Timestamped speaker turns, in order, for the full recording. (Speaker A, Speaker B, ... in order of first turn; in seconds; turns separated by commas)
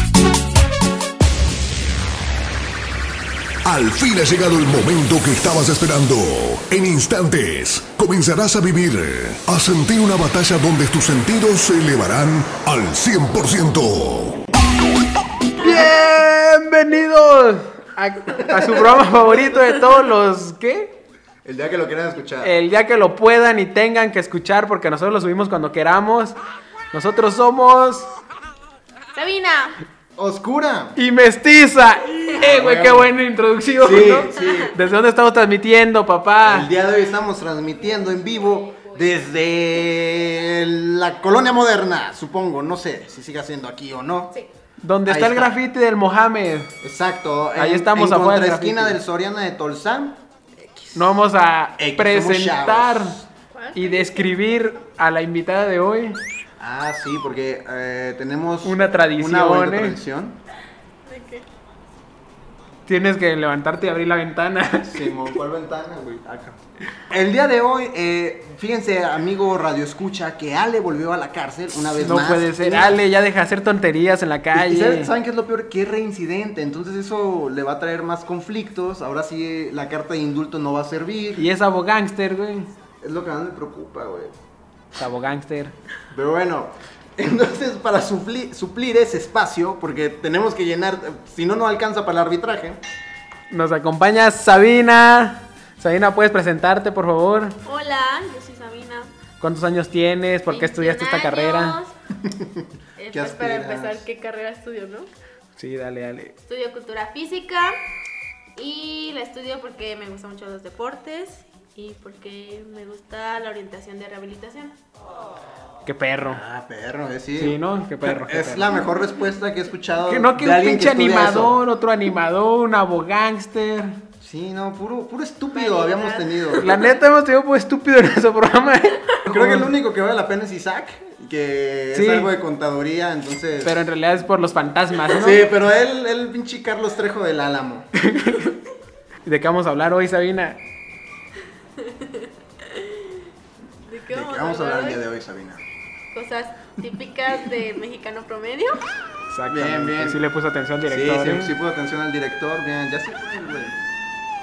Speaker A: 3.6-14.4, Speaker B: 15.6-21.0, Speaker C: 18.5-18.8, Speaker C: 21.4-22.5, Speaker B: 22.4-26.4, Speaker B: 26.9-28.1, Speaker D: 29.1-29.8, Speaker C: 30.1-31.0, Speaker B: 30.9-36.7, Speaker C: 32.4-33.1, Speaker C: 33.8-34.8, Speaker C: 36.4-44.3, Speaker D: 37.8-39.3, Speaker B: 44.8-46.7, Speaker C: 45.0-45.6, Speaker C: 46.8-51.1, Speaker B: 47.5-49.0, Speaker B: 50.9-53.2, Speaker C: 51.8-53.2, Speaker D: 53.5-54.3, Speaker B: 53.7-56.2, Speaker C: 56.6-60.4, Speaker B: 58.6-60.0, Speaker D: 61.0-61.5, Speaker B: 62.9-65.1, Speaker C: 64.8-66.6, Speaker C: 67.1-73.0, Speaker B: 71.9-75.1, Speaker C: 74.5-81.5, Speaker B: 81.4-82.7, Speaker C: 83.0-84.3, Speaker B: 84.9-85.7, Speaker C: 86.1-92.8, Speaker B: 93.5-97.6, Speaker D: 97.6-99.1, Speaker B: 99.4-101.8, Speaker D: 100.5-101.9, Speaker C: 102.2-104.0, Speaker D: 103.0-105.1, Speaker B: 105.6-106.3, Speaker D: 106.5-107.8, Speaker D: 108.5-114.8, Speaker B: 115.8-116.4, Speaker C: 116.3-121.6, Speaker B: 117.4-118.8, Speaker B: 120.1-124.0, Speaker C: 124.2-126.7, Speaker D: 125.5-126.9, Speaker B: 126.5-129.7, Speaker C: 129.3-133.8, Speaker B: 131.9-132.3, Speaker B: 133.6-135.5, Speaker C: 135.1-137.9, Speaker B: 138.0-138.6, Speaker B: 139.2-140.6, Speaker D: 141.8-143.0, Speaker D: 143.9-145.0, Speaker C: 144.1-145.6, Speaker D: 146.1-148.8, Speaker B: 149.3-151.5, Speaker C: 149.5-150.2, Speaker C: 150.8-153.8